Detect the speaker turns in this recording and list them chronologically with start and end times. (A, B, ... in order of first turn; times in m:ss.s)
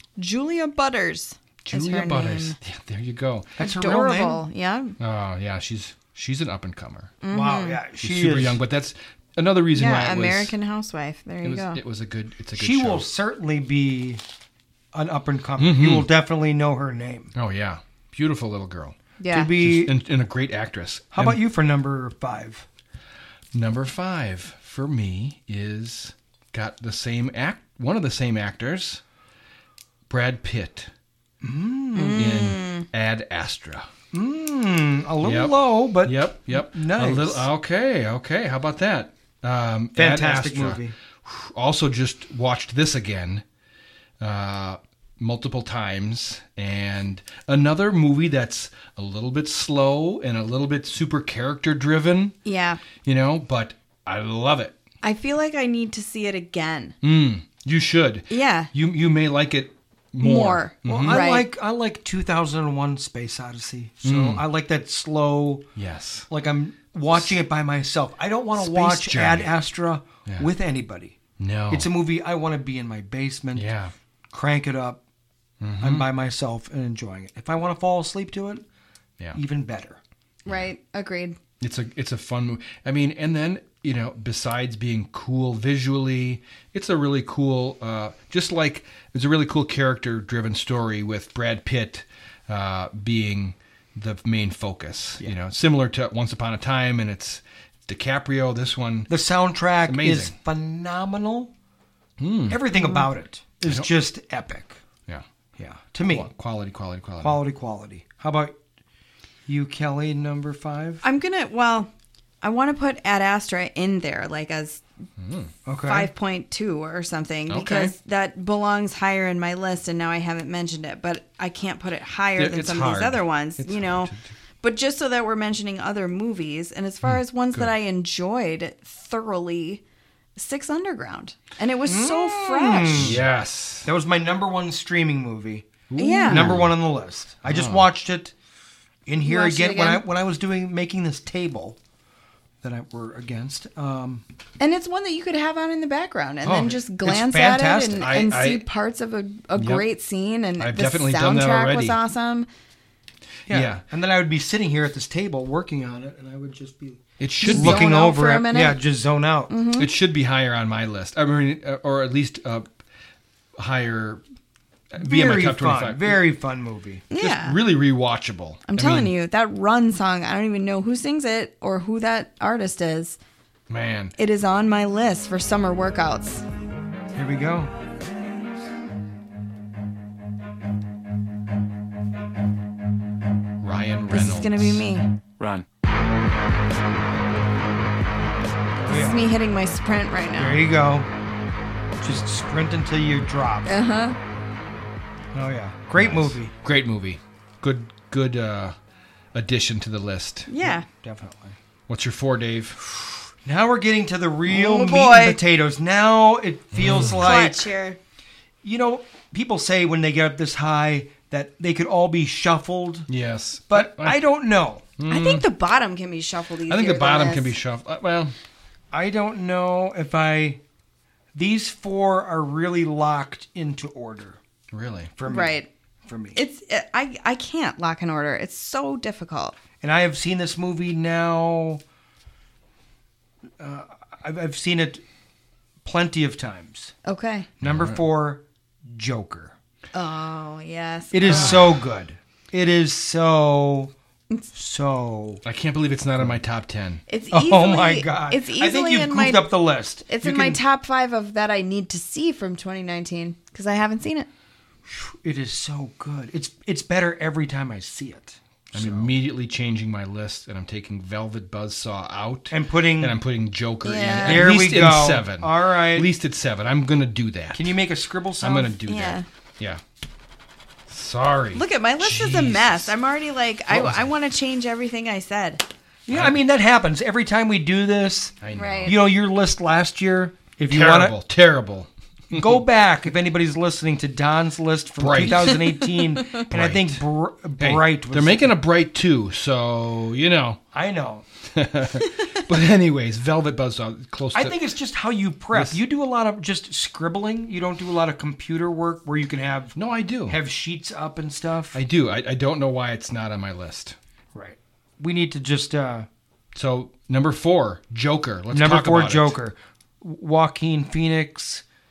0:00.2-0:02.6 A
0:01.6-0:03.5 B
0:03.6-0:04.4 C
0:03.6-0:05.0 A
0:05.0-0:07.1 B
0:07.2-0:07.8 A
0:07.3-0:08.6 C
0:08.0-0:10.5 B
0:09.7-0:11.8 A
0:11.4-0:13.1 B
0:12.5-0:14.2 C
0:14.9-0:17.3 C
0:15.6-0:16.1 B
0:17.3-0:19.0 B
0:19.2-0:19.5 A
0:19.3-0:19.9 C
0:19.6-0:21.4 B
0:21.1-0:22.6 C
0:23.5-0:29.0 B
0:30.1-0:30.9 B
0:31.4-0:32.3 C
0:31.9-0:32.8 A
0:32.1-0:33.9 B
0:34.1-0:37.5 C
0:35.2-0:43.4 B
0:39.9-0:40.9 C
0:44.2-0:52.4 B
0:52.4-0:52.8 A
0:53.0-0:54.8 B
0:55.0-0:57.0 A
0:57.0-1:01.2 B
0:58.3-0:58.7 A
1:00.2-1:01.5 A
1:00.8-1:05.7 C
1:04.0-1:04.4 B
1:05.8-1:06.3 B
1:06.3-1:11.2 C
1:08.6-1:09.5 B
1:11.4-1:11.9 B
1:11.7-1:13.7 C
1:13.5-1:13.9 B
1:14.3-1:15.0 C
1:15.6-1:16.1 B
1:15.8-1:18.6 C
1:19.3-1:20.0 C
1:20.4-1:21.4 A
1:21.6-1:39.1 B
1:39.1-1:41.5 C
1:39.8-1:40.3 B
1:42.2-1:42.6 B
1:42.5-1:44.8 C
1:42.7-1:43.1 A
1:45.6-1:46.3 C
1:46.1-1:47.4 B
1:47.2-1:48.6 C
1:49.5-1:51.0 C
1:51.0-1:51.9 A
1:52.4-1:54.8 A
1:55.2-1:55.5 B
1:55.6-1:56.1 C
1:55.8-2:09.8 A
1:57.5-1:57.9 B
2:02.4-2:04.3 B
2:07.0-2:07.7 B
2:10.4-2:13.2 A
2:11.8-2:13.2 C
2:13.0-2:13.9 B
2:13.8-2:18.3 C
2:15.9-2:16.7 B
2:16.0-2:16.6 A
2:17.4-2:17.9 B
2:19.0-2:21.8 C
2:19.2-2:20.0 A
2:22.6-2:24.2 C
2:24.6-2:32.5 A
2:26.4-2:28.1 C
2:28.0-2:28.6 B
2:29.6-2:29.8 B
2:30.6-2:32.0 B
2:33.5-2:33.8 B
2:33.5-2:39.5 C
2:37.2-2:37.9 B
2:37.4-2:38.8 A
2:39.5-2:39.9 A
2:39.8-2:42.6 B
2:43.6-2:44.2 B
2:44.9-2:46.2 B
2:45.0-2:47.0 C
2:47.1-2:47.6 A
2:47.2-2:49.1 B
2:48.7-2:53.2 A
2:53.7-2:54.1 B
2:54.2-2:56.4 A
2:57.1-2:57.7 C
3:03.6-3:04.8 B
3:04.1-3:05.1 A
3:08.8-3:09.3 C
3:08.9-3:10.7 A
3:10.4-3:11.1 C
3:12.0-3:13.7 C
3:13.6-3:14.2 A
3:15.3-3:16.5 C
3:16.0-3:18.7 B
3:19.3-3:20.5 B
3:20.5-3:20.9 A
3:20.6-3:21.6 C
3:21.9-3:22.8 B
3:23.4-3:27.7 C
3:24.5-3:25.4 A
3:26.7-3:27.3 B
3:27.1-3:28.0 A
3:28.6-3:33.1 C
3:33.1-3:34.2 B
3:33.7-3:34.8 C
3:35.0-3:35.4 B
3:35.1-3:37.5 A
3:36.7-3:38.3 B
3:38.9-3:40.6 C
3:41.3-3:44.4 C
3:44.7-3:45.1 B
3:45.2-3:46.4 C
3:45.3-3:45.7 A
3:46.3-3:49.6 A
3:49.8-3:51.8 C
3:53.6-3:55.0 C
3:55.8-3:56.9 C
3:57.0-3:57.5 A
3:57.6-3:59.5 C
3:57.6-3:58.0 B
3:59.9-4:01.7 A
4:01.1-4:03.9 C
4:01.2-4:01.7 B
4:04.5-4:05.4 C
4:05.4-4:07.0 B
4:07.1-4:09.5 A
4:07.3-4:10.6 C
4:10.1-4:14.3 A
4:14.9-4:19.1 C
4:18.7-4:27.7 B
4:22.5-4:23.2 C
4:23.8-4:24.5 A
4:24.2-4:26.1 C
4:27.5-4:28.7 C
4:28.4-4:29.8 B
4:28.7-4:29.3 A
4:30.9-4:32.9 B
4:31.5-4:35.6 A
4:33.7-4:34.1 B
4:36.1-4:41.1 C
4:36.1-4:36.4 B
4:38.4-4:39.0 B
4:38.6-4:38.9 A
4:40.7-4:42.6 B
4:42.3-4:48.5 C
4:45.0-4:45.7 B
4:45.7-4:46.4 A
4:46.3-4:47.0 B
4:47.6-4:50.6 B
4:50.7-4:51.2 C
4:51.5-4:54.6 B
4:54.3-4:59.8 C
4:55.5-4:55.8 B
4:59.8-5:00.4 B
5:00.3-5:01.8 C
5:01.7-5:04.0 B
5:04.3-5:06.1 C
5:06.5-5:09.4 B
5:08.5-5:11.6 C